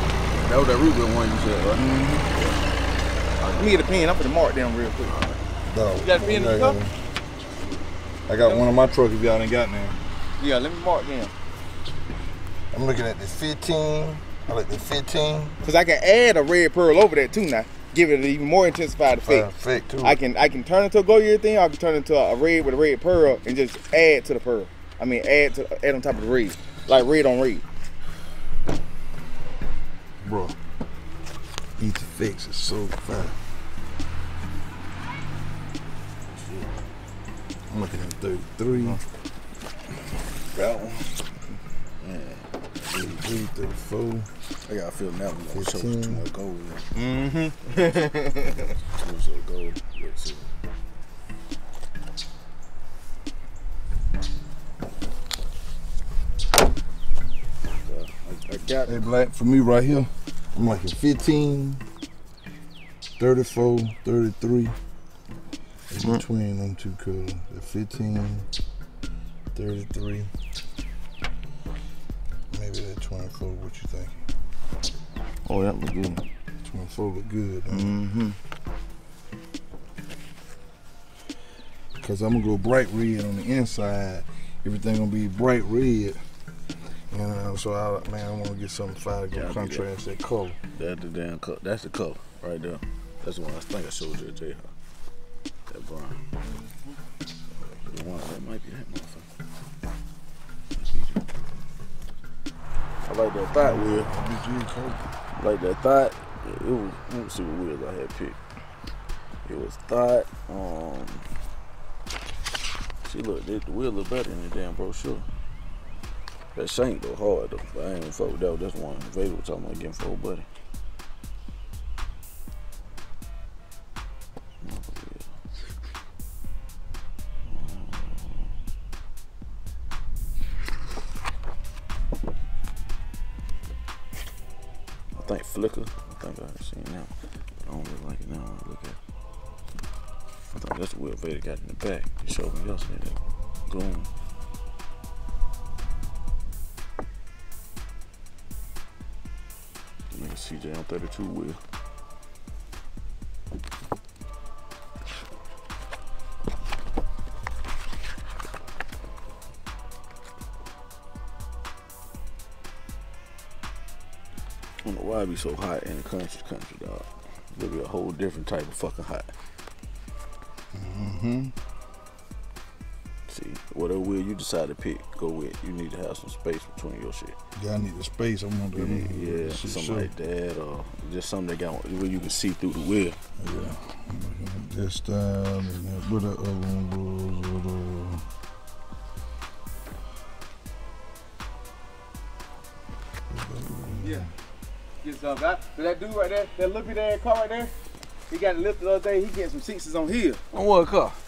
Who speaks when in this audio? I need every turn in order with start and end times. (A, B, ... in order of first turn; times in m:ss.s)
0:00.3-0:02.6 A
0:01.7-0:02.3 B
0:03.4-0:03.8 A
0:03.6-0:05.2 B
0:05.1-0:05.4 A
0:05.6-0:06.9 C
0:06.0-0:06.8 B
0:08.3-0:10.0 C
0:08.4-0:08.9 B
0:10.4-0:11.3 B
0:12.7-0:15.6 C
0:15.6-0:19.5 B
0:19.2-0:20.2 C
0:20.0-0:27.6 B
0:30.2-0:30.6 C
0:31.8-0:33.4 C
0:36.3-0:36.7 A
0:37.7-0:39.0 C
0:40.6-0:41.0 A
0:42.0-0:43.2 A
0:42.9-0:44.3 C
0:44.6-0:46.8 A
0:45.5-0:46.2 C
0:46.9-0:48.7 B
0:48.8-0:50.5 A
0:57.8-0:59.1 A
0:58.8-1:01.8 C
1:03.2-1:04.8 C
1:05.9-1:08.5 C
1:09.5-1:10.3 C
1:12.5-1:14.2 C
1:15.4-1:16.2 B
1:16.7-1:17.9 C
1:17.7-1:18.4 B
1:22.0-1:26.2 C
1:27.1-1:30.6 C
1:29.3-1:29.9 A
1:30.7-1:34.7 A
1:35.7-1:36.2 A
1:37.8-1:39.2 A
1:43.0-1:44.1 A
1:43.5-1:45.0 C
1:45.4-1:48.4 A
1:49.4-1:51.2 A
1:53.0-1:55.2 A
1:56.5-2:00.4 A
2:04.6-2:05.2 A
2:07.4-2:08.5 A
2:15.2-2:17.1 A
2:17.6-2:19.0 A
2:20.5-2:24.1 A
2:30.1-2:31.6 A
2:44.8-2:49.3 A
2:50.7-2:51.5 C
2:53.3-2:57.4 A
2:57.6-3:00.1 C
2:58.7-3:03.2 A
3:03.4-3:08.2 C
3:13.3-3:14.3 C
3:14.0-3:14.3 B
3:15.0-3:17.7 B
3:18.3-3:20.4 B
3:20.5-3:21.2 A